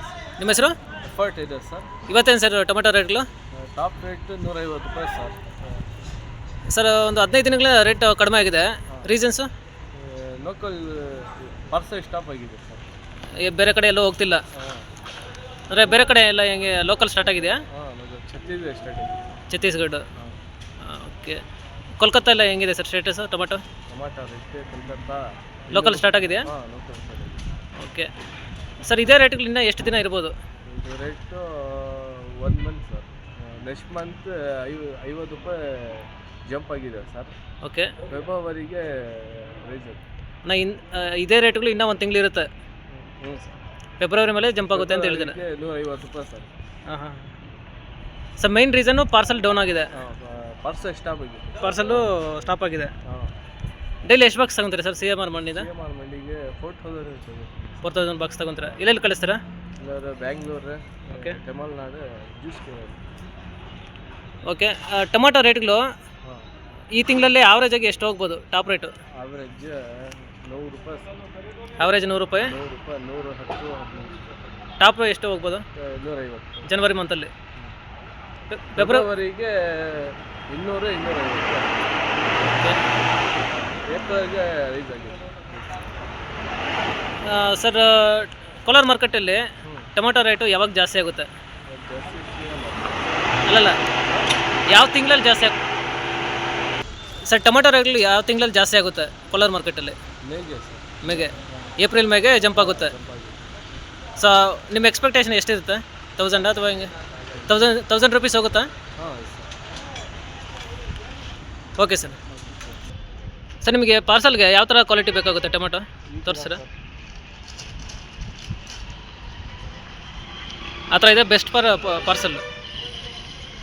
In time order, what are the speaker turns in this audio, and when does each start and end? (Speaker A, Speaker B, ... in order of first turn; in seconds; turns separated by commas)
Speaker A: 0.4-0.8, Speaker B: 1.0-1.9, Speaker A: 2.1-3.2, Speaker B: 3.5-5.7, Speaker A: 6.7-9.5, Speaker B: 9.9-12.8, Speaker A: 13.4-14.4, Speaker B: 14.5-14.9, Speaker A: 15.7-17.6, Speaker B: 17.7-19.4, Speaker A: 19.5-20.1, Speaker A: 20.8-21.4, Speaker A: 22.0-23.6, Speaker B: 23.9-27.5, Speaker A: 25.7-26.5, Speaker A: 27.8-28.1, Speaker A: 28.8-30.3, Speaker B: 30.6-37.3, Speaker A: 37.6-38.0, Speaker B: 38.0-40.0, Speaker A: 40.4-42.5, Speaker B: 42.9-43.5, Speaker A: 44.0-45.4, Speaker B: 44.7-46.5, Speaker A: 46.9-47.3, Speaker A: 48.4-49.9, Speaker B: 49.9-52.1, Speaker A: 51.6-52.9, Speaker B: 53.0-53.3, Speaker A: 54.0-55.7, Speaker B: 55.4-57.8, Speaker A: 57.8-59.4, Speaker B: 59.8-63.0, Speaker A: 61.1-61.4, Speaker A: 64.5-65.8, Speaker A: 67.0-68.9, Speaker B: 69.2-71.2, Speaker A: 71.8-72.5, Speaker B: 72.4-74.5, Speaker A: 74.8-75.6, Speaker B: 75.7-76.7, Speaker A: 76.7-77.3, Speaker A: 78.5-79.0, Speaker B: 78.8-82.1, Speaker A: 82.5-82.8, Speaker B: 83.9-85.8, Speaker A: 87.2-89.4, Speaker B: 89.6-89.9, Speaker A: 89.9-91.3, Speaker B: 91.7-93.3, Speaker A: 93.5-93.8, Speaker B: 94.0-94.3, Speaker A: 94.7-95.5, Speaker A: 97.2-100.0, Speaker B: 100.2-101.3, Speaker A: 101.0-102.9, Speaker B: 102.5-103.4, Speaker A: 104.2-106.9, Speaker B: 107.3-107.6, Speaker A: 107.5-108.7, Speaker B: 109.0-109.5, Speaker A: 111.8-112.2, Speaker B: 112.3-112.8, Speaker A: 113.6-116.6, Speaker B: 116.1-116.7, Speaker A: 120.9-122.4